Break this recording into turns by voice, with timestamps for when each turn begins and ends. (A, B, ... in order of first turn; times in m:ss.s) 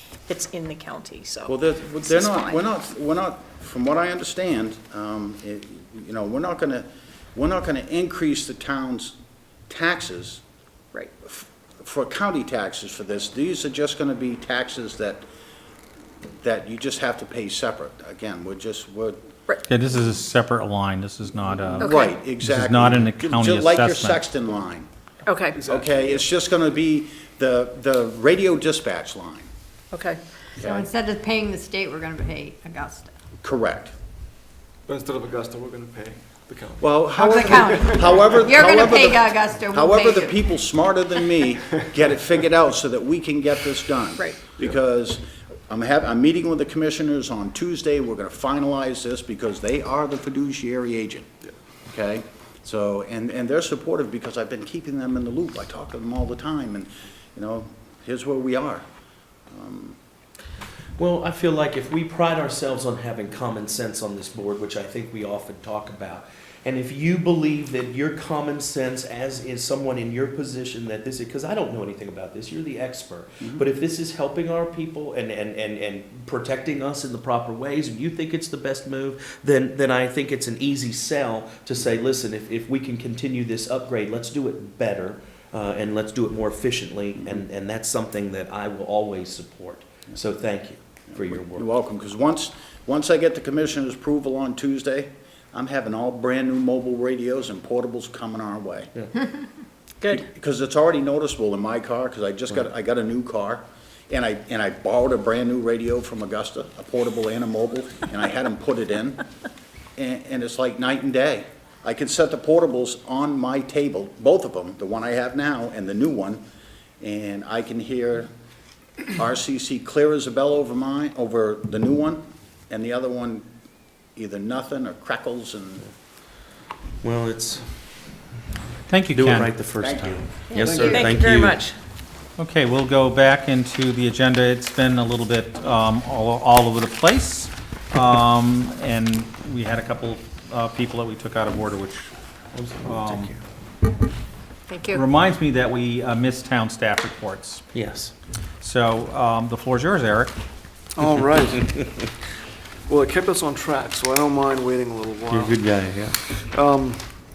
0:00.3-0:02.7 A
0:01.5-0:09.2 B
0:09.7-0:10.4 B
0:11.2-0:15.2 B
0:16.4-0:19.2 B
0:19.7-0:24.2 C
0:21.7-0:24.9 B
0:21.8-0:22.1 A
0:25.2-0:25.6 A
0:25.5-0:26.1 D
0:25.6-0:29.5 B
0:29.9-0:30.2 A
0:30.6-0:30.8 B
0:30.6-0:33.1 E
0:33.4-0:33.9 B
0:34.9-0:38.4 D
0:36.8-0:51.3 B
0:37.1-0:40.4 E
0:44.2-0:44.4 A
0:51.9-0:58.8 B
0:59.5-1:00.0 B
1:01.0-1:31.7 F
1:31.1-1:38.9 B
1:40.1-1:49.2 B
1:50.0-1:56.4 B
1:57.0-1:58.3 B
1:59.1-2:03.4 B
2:04.2-2:05.9 B
2:07.0-2:07.7 F
2:08.9-2:09.5 C
2:09.1-2:11.6 F
2:09.8-2:10.3 B
2:10.5-2:11.1 E
2:10.6-2:11.0 D
2:10.9-2:11.7 A
2:12.4-2:22.1 C
2:22.5-2:23.4 F
2:22.8-2:23.3 C
2:24.7-2:25.0 A
2:24.9-2:27.7 C
2:27.7-2:28.1 F
2:28.6-2:30.3 C
2:31.0-2:31.8 D
2:32.9-2:35.6 D
2:35.3-2:36.2 F
2:36.2-2:37.1 D